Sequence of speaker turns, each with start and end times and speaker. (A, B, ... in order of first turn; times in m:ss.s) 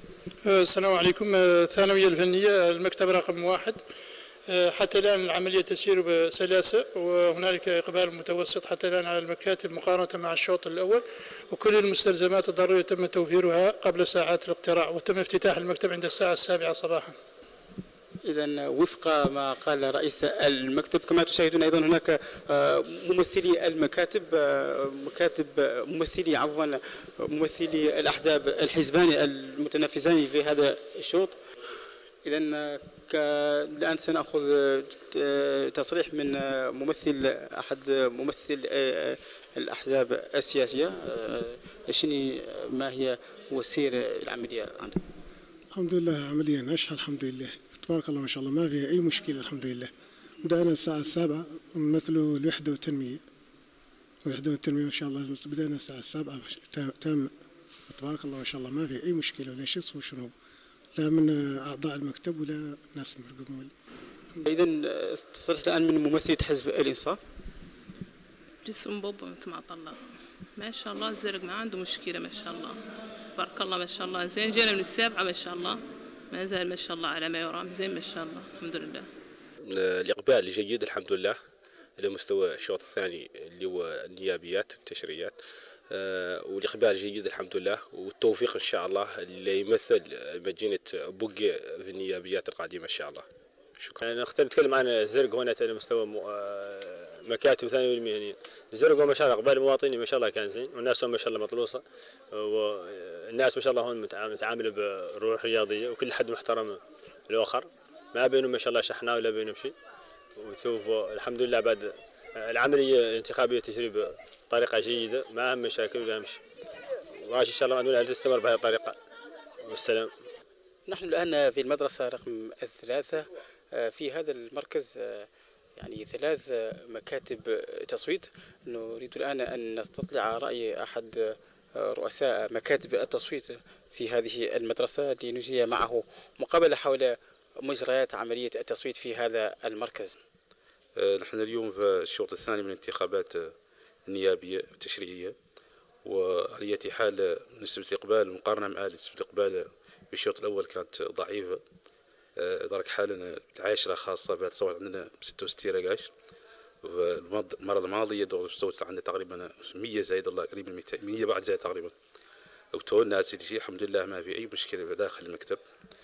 0:00.4-0:03.8 A
0:04.5-0:17.2 A
0:18.2-0:31.4 B
0:32.2-0:45.0 B
0:45.8-0:49.9 C
0:50.4-0:53.2 C
0:54.2-0:57.3 C
0:57.9-1:00.3 C
1:01.0-1:03.7 C
1:04.4-1:07.2 B
1:08.6-1:10.0 D
1:10.6-1:12.8 D
1:13.4-1:15.8 D
1:16.3-1:19.1 D
1:19.6-1:21.4 E
1:22.0-1:34.0 E
1:34.0-1:49.7 F
1:50.4-1:56.4 F
1:57.3-1:59.0 F
1:59.7-2:00.1 F
2:00.9-2:20.2 B
2:21.0-2:23.5 G
2:24.1-2:25.4 G
2:26.0-2:31.6 G
2:32.4-2:36.1 G
2:36.8-2:42.0 G
2:42.7-2:45.6 G